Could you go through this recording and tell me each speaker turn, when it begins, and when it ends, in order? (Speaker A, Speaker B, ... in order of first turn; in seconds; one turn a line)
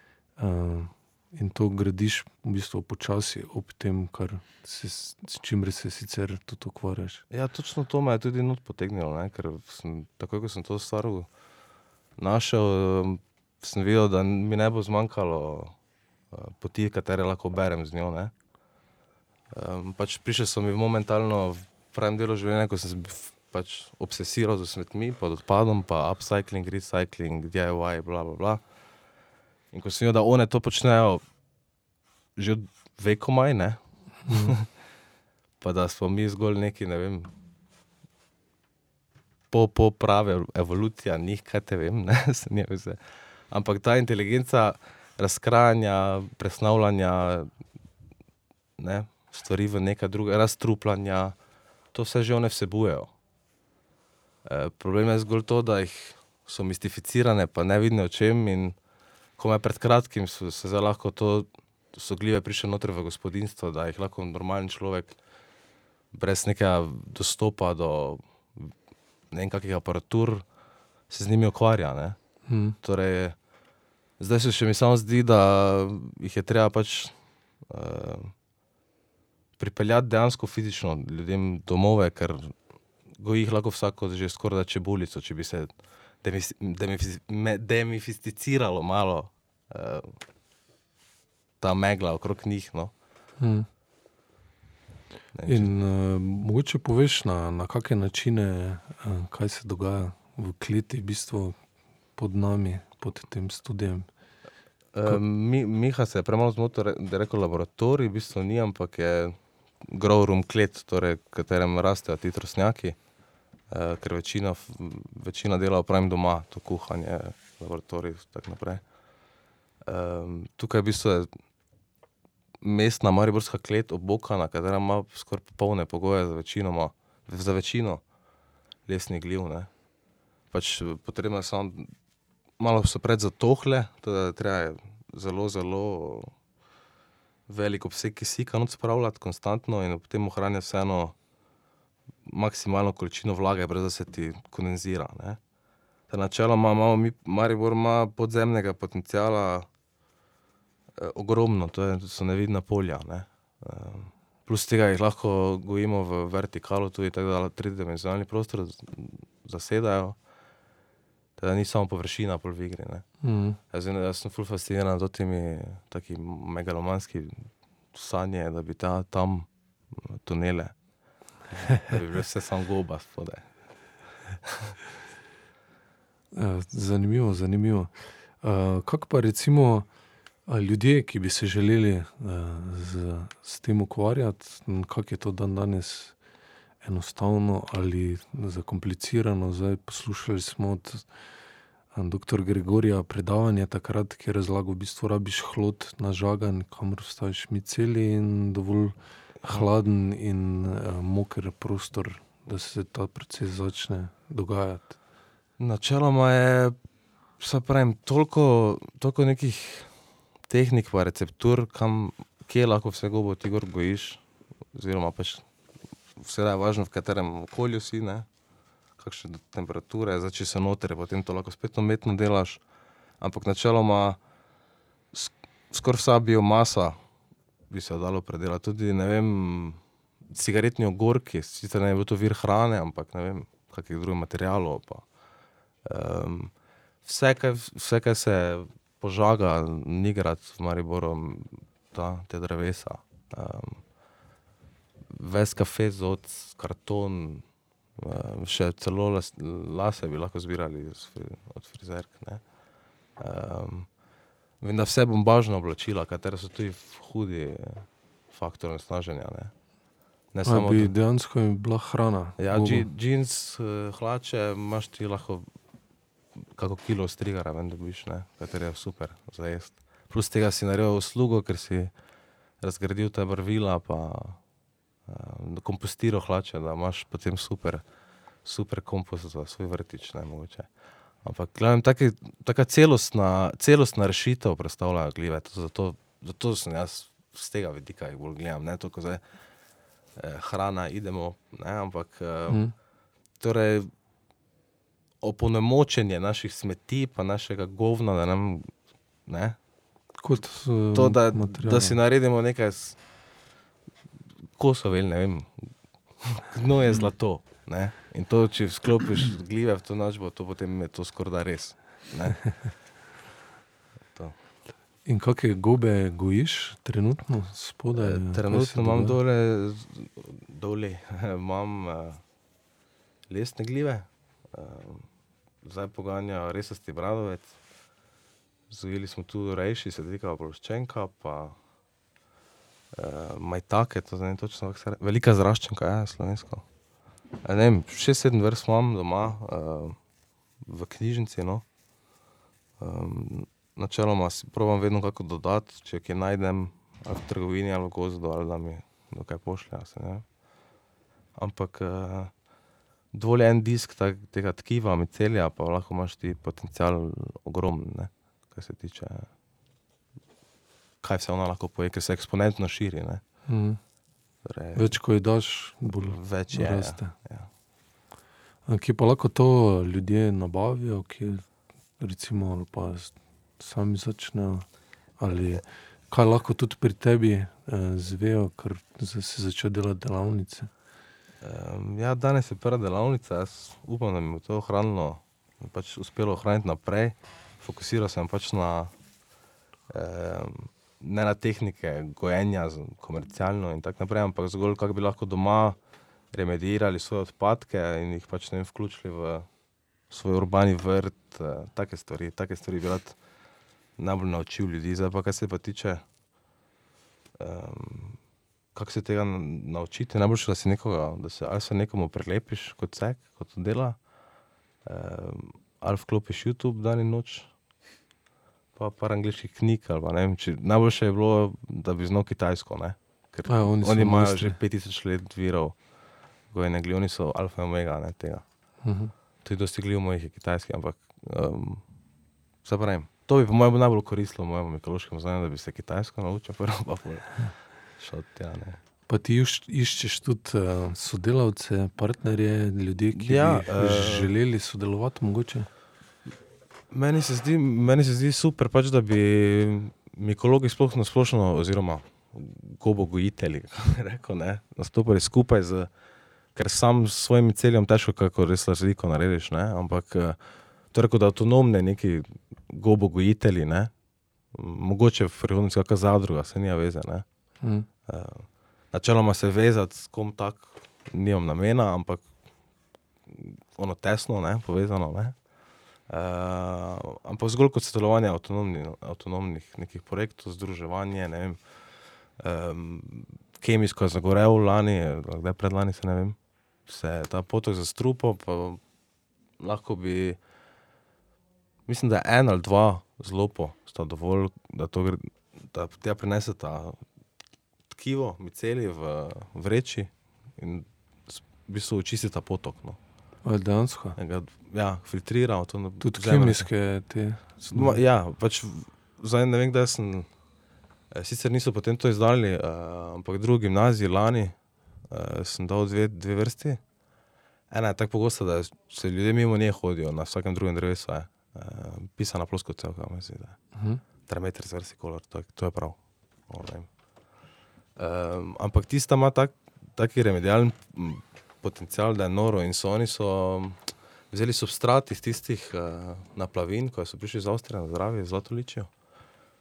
Speaker A: 0.4-7.2
Speaker B: 7.3-11.3
Speaker B: 12.2-15.7
Speaker B: 16.3-18.3
Speaker B: 19.5-28.6
Speaker B: 29.7-31.2
Speaker B: 32.4-34.7
Speaker A: 34.3-34.5
Speaker B: 35.6-37.3
Speaker B: 39.5-47.5
Speaker B: 48.8-51.4
Speaker B: 51.9-53.1
Speaker B: 54.5-58.8
Speaker B: 59.4-65.2
Speaker B: 66.1-68.7
Speaker B: 69.3-70.5
Speaker B: 71.1-72.2
Speaker A: 72.5-72.8
Speaker B: 72.8-73.4
Speaker B: 74.2-77.1
Speaker B: 77.7-78.3
Speaker B: 79.6-82.5
Speaker B: 83.2-90.2
Speaker B: 91.6-92.9
Speaker A: 93.4-93.7
Speaker B: 95.3-95.7
Speaker A: 95.5-101.6
Speaker A: 102.2-104.1
Speaker B: 104.9-113.0
Speaker B: 113.7-118.8
Speaker B: 119.9-121.3
Speaker B: 122.6-128.0
Speaker B: 128.9-129.7
Speaker B: 130.5-131.9
Speaker B: 132.6-136.3
Speaker B: 137.5-141.2
Speaker B: 142.3-145.4
Speaker B: 146.1-149.7
Speaker B: 151.0-160.2
Speaker B: 161.4-163.1
Speaker A: 163.2-163.6
Speaker B: 163.7-170.8
Speaker B: 171.5-173.5
Speaker A: 176.3-179.9
Speaker A: 180.5-186.2
Speaker A: 186.8-191.1
Speaker A: 191.9-204.9
Speaker B: 205.6-206.8
Speaker B: 207.4-209.9
Speaker B: 210.5-215.4
Speaker B: 216.2-218.3
Speaker B: 219.0-222.6
Speaker B: 223.2-224.2
Speaker B: 225.1-227.0
Speaker B: 227.7-235.1
Speaker B: 235.8-243.8
Speaker B: 245.1-252.5
Speaker B: 253.2-254.0
Speaker B: 254.6-259.5
Speaker B: 260.3-260.9
Speaker A: 260.4-262.9
Speaker B: 262.4-265.5
Speaker B: 266.6-271.9
Speaker B: 272.6-274.4
Speaker B: 275.1-277.9
Speaker B: 278.4-280.7
Speaker B: 281.2-289.2
Speaker B: 290.2-292.6
Speaker B: 293.4-293.9
Speaker B: 295.2-298.7
Speaker B: 299.3-299.6
Speaker A: 300.2-302.0
Speaker B: 300.9-303.0
Speaker B: 304.6-305.7
Speaker B: 306.2-312.7
Speaker A: 315.1-319.2
Speaker B: 318.0-322.2
Speaker B: 323.3-325.1
Speaker B: 325.6-327.5
Speaker B: 328.7-331.6
Speaker B: 332.9-336.6
Speaker B: 337.4-340.0
Speaker B: 340.6-341.6
Speaker B: 342.8-350.3
Speaker B: 351.4-352.3
Speaker B: 353.1-359.3
Speaker B: 361.0-363.2
Speaker A: 363.5-363.8
Speaker B: 364.4-365.0
Speaker A: 364.8-367.1
Speaker B: 366.0-367.5
Speaker A: 368.7-371.5
Speaker A: 372.0-380.7
Speaker B: 381.4-388.9
Speaker B: 389.9-395.8
Speaker B: 396.3-399.5
Speaker B: 400.1-403.2
Speaker B: 404.0-406.0
Speaker B: 407.4-408.2
Speaker B: 408.7-414.0
Speaker B: 414.9-417.5
Speaker B: 418.8-425.8
Speaker A: 423.5-424.6
Speaker B: 426.5-428.4
Speaker A: 428.8-429.1
Speaker B: 429.4-431.8
Speaker B: 432.6-438.8
Speaker A: 439.1-445.7
Speaker B: 443.2-444.3
Speaker B: 446.9-455.9
Speaker B: 456.6-460.4
Speaker B: 460.9-463.9
Speaker B: 464.5-467.2
Speaker A: 467.6-467.9
Speaker B: 468.1-472.3
Speaker B: 473.3-475.4
Speaker B: 476.1-481.6
Speaker B: 482.4-488.8
Speaker B: 489.6-490.4
Speaker B: 491.9-497.0
Speaker B: 497.9-503.0
Speaker A: 503.4-504.2
Speaker B: 504.2-506.7
Speaker A: 506.0-508.0
Speaker B: 507.7-510.3
Speaker B: 511.1-514.6
Speaker B: 515.1-516.8
Speaker B: 517.7-523.7
Speaker A: 523.8-524.0
Speaker B: 524.3-527.0
Speaker B: 528.0-538.9